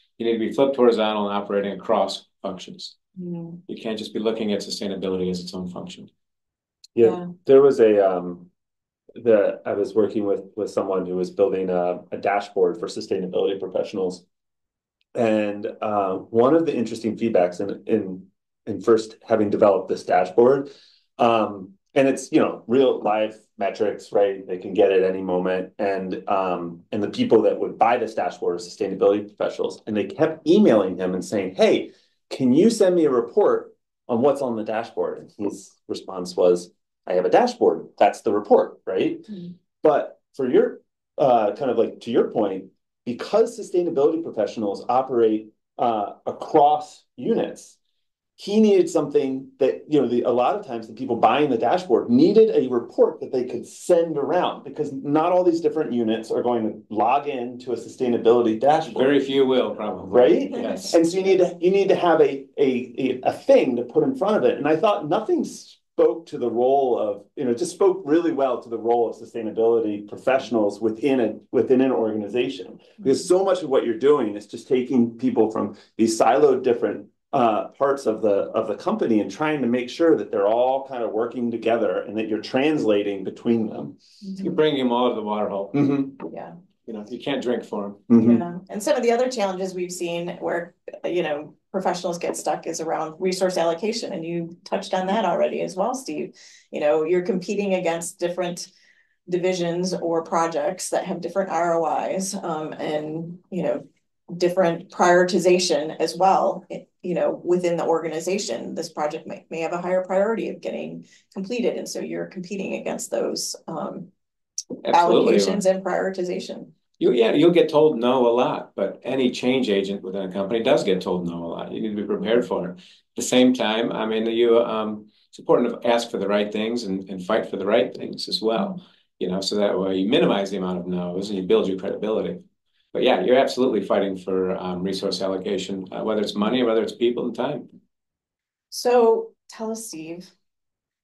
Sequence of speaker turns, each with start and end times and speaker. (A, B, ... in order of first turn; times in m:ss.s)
0:00.2-0:03.0 A
0:03.2-0:03.6 B
0:03.7-0:06.1 A
0:06.9-0:08.5 C
0:07.0-0:07.3 B
0:09.2-0:14.2 C
0:15.1-0:47.8 C
0:48.4-0:59.1 C
0:58.9-1:01.0 A
1:00.0-1:24.0 C
1:00.5-1:01.0 B
1:24.2-1:24.6 B
1:24.4-1:26.1 A
1:25.7-1:26.1 C
1:26.8-1:28.1 A
1:28.1-1:28.4 C
1:28.1-1:38.7 B
1:39.3-1:54.1 B
1:54.8-1:55.6 A
1:54.9-1:56.7 B
1:57.0-2:12.4 A
2:12.9-2:17.7 A
2:18.7-2:20.3 B